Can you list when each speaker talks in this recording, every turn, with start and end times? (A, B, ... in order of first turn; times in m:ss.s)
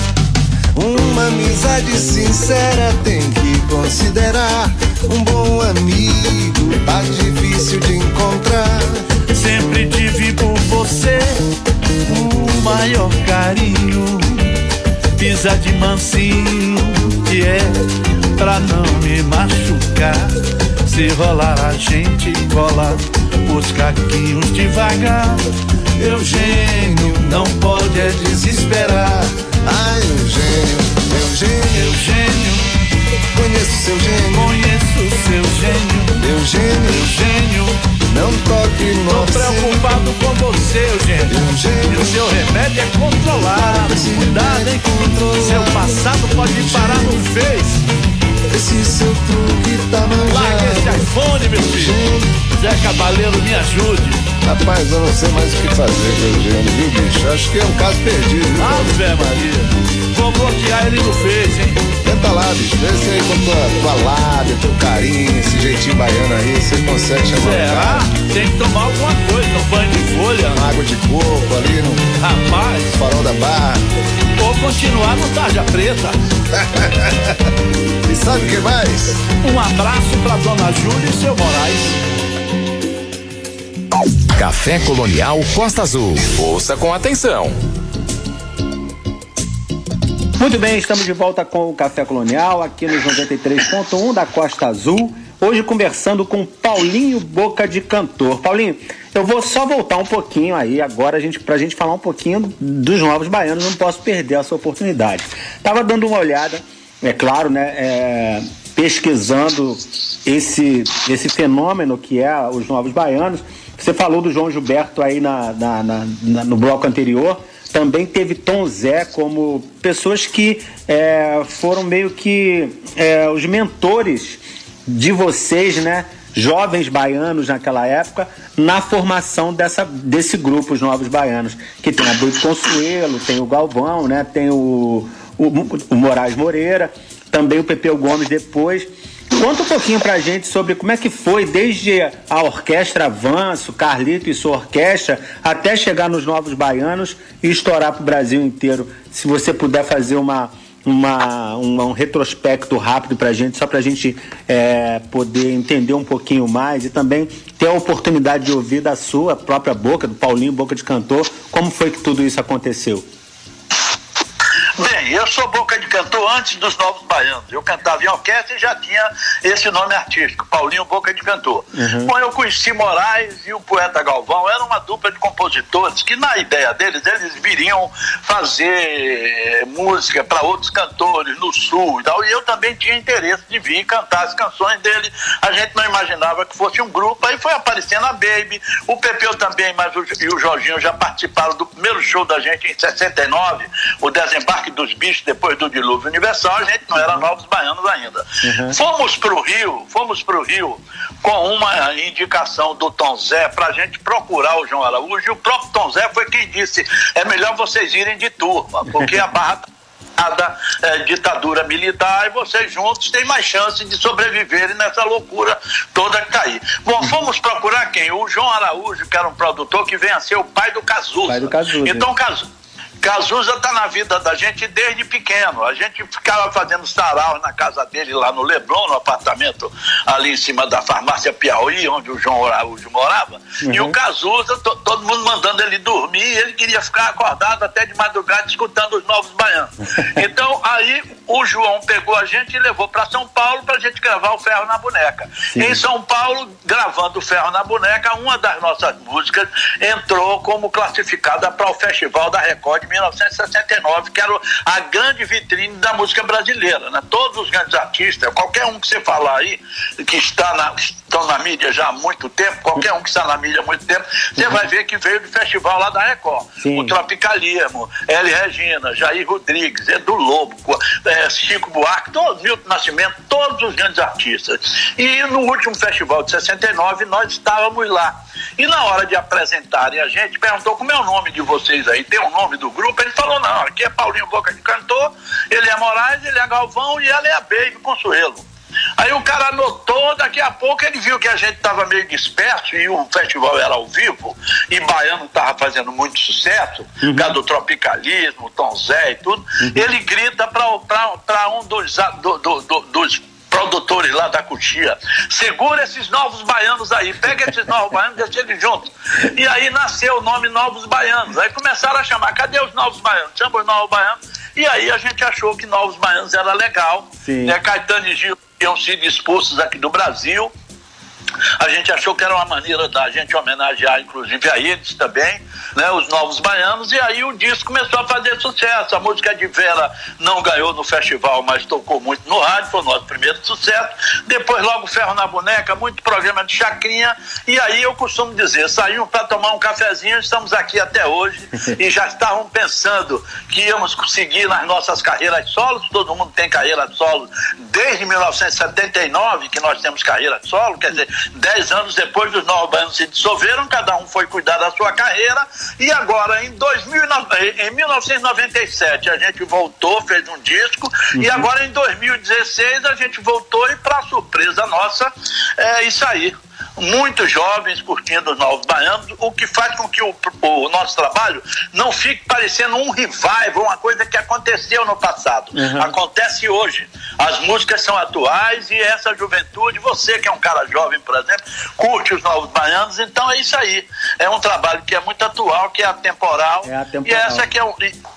0:00.7-0:09.0 A
0:09.3-0:11.4 B
0:12.0-0:14.5 B
0:15.2-0:17.8 B
0:18.4-0:25.4 B
0:26.0-0:29.2 B
0:26.0-0:32.0 A
0:31.7-0:32.7 B
0:33.3-0:34.6 A
0:34.3-0:36.2 B
0:36.2-0:37.1 A
0:36.9-0:37.8 B
0:38.1-0:40.0 A
0:39.1-0:47.8 B
0:41.3-0:42.2 A
0:43.4-0:47.2 A
0:48.5-0:51.1 A
0:50.3-0:54.2 B
0:51.6-0:52.4 A
0:54.4-0:59.0 A
0:58.6-1:01.9 B
1:02.0-1:08.1 A
1:07.3-1:10.7 B
1:10.5-1:12.1 A
1:11.9-1:13.0 B
1:13.0-1:13.8 A
1:14.4-1:16.2 B
1:16.5-1:17.4 A
1:18.0-1:19.2 A
1:19.4-1:22.0 B
1:24.3-1:27.6 C
1:30.4-2:43.1 D
2:44.8-3:29.6 E
2:51.7-2:52.1 D
3:17.0-3:17.2 D
3:18.4-3:18.8 D
3:30.2-3:42.4 E
3:41.2-3:42.1 D
3:43.0-4:48.4 E
3:53.6-3:54.0 D
4:05.5-4:05.8 D
4:26.6-4:26.9 D
4:49.0-5:20.5 E
4:57.0-4:57.3 D
5:17.2-5:17.6 D
5:21.6-6:27.9 E
6:01.2-6:01.4 D
6:15.5-6:15.9 D
6:26.6-6:27.5 D